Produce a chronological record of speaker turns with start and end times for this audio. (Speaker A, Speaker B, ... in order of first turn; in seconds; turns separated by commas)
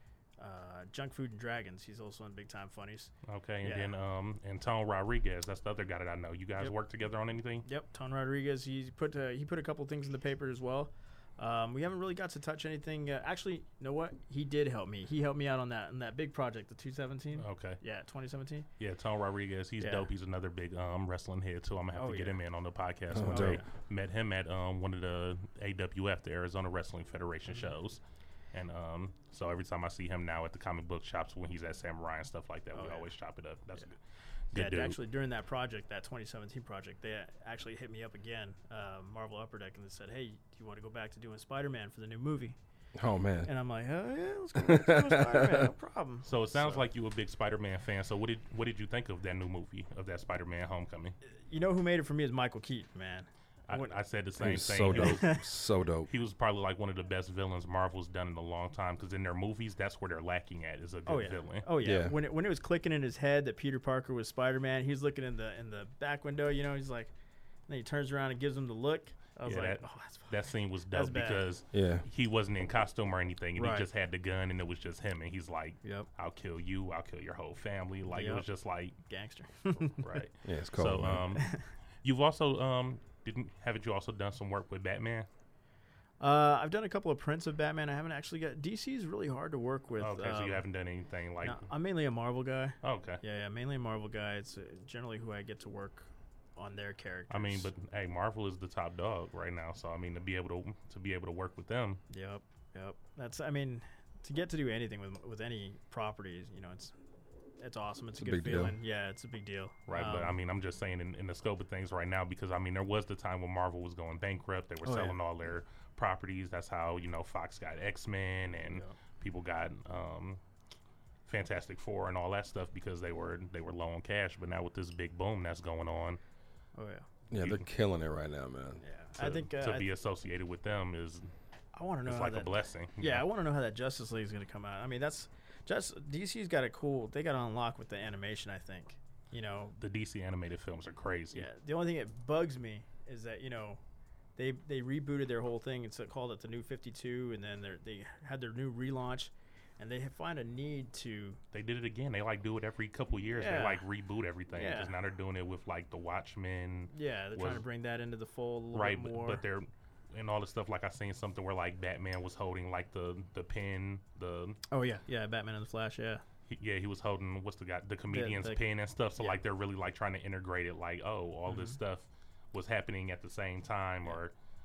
Speaker A: 0.4-3.1, Speaker B: 3.2-7.7, Speaker A: 3.6-3.9, Speaker A: 7.6-18.7, Speaker B: 17.4-17.8, Speaker B: 18.8-28.0, Speaker A: 19.8-20.1, Speaker A: 21.9-22.4, Speaker C: 23.1-23.6, Speaker A: 23.2-23.6, Speaker B: 28.5-34.0, Speaker A: 32.8-33.1, Speaker B: 34.5-35.0, Speaker A: 34.5-42.6, Speaker C: 43.0-43.5, Speaker A: 43.4-46.9, Speaker C: 44.5-45.7, Speaker B: 46.2-51.1, Speaker A: 51.5-54.0, Speaker B: 53.7-55.4, Speaker C: 54.4-56.1, Speaker A: 54.9-55.4, Speaker B: 56.1-61.7, Speaker A: 61.0-67.1, Speaker C: 61.8-62.1, Speaker A: 67.7-71.5, Speaker B: 69.4-79.0, Speaker C: 71.7-72.0, Speaker A: 73.6-73.9, Speaker A: 78.1-78.5, Speaker A: 79.1-80.2, Speaker B: 80.0-85.3, Speaker C: 80.4-81.3, Speaker A: 81.4-81.7, Speaker A: 86.2-90.6, Speaker B: 90.0-91.7, Speaker A: 91.4-97.7, Speaker B: 92.8-93.2, Speaker B: 97.3-102.0, Speaker A: 102.1-106.9, Speaker A: 107.6-110.4, Speaker C: 108.2-108.8, Speaker B: 109.9-120.4, Speaker A: 114.8-115.2, Speaker A: 118.7-118.9, Speaker B: 121.3-126.2, Speaker A: 126.8-127.1, Speaker C: 127.3-128.8, Speaker B: 127.4-127.7, Speaker A: 128.8-129.9, Speaker B: 129.2-131.3, Speaker A: 131.7-139.8, Speaker B: 132.1-133.2, Speaker B: 139.8-141.5, Speaker A: 141.3-143.8, Speaker A: 144.3-151.4, Speaker B: 151.5-157.6, Speaker A: 153.3-153.8, Speaker A: 154.5-154.9, Speaker A: 156.9-159.4, Speaker B: 158.7-164.6, Speaker A: 164.7-166.2, Speaker B: 166.5-174.3, Speaker A: 168.1-168.6, Speaker A: 171.5-171.8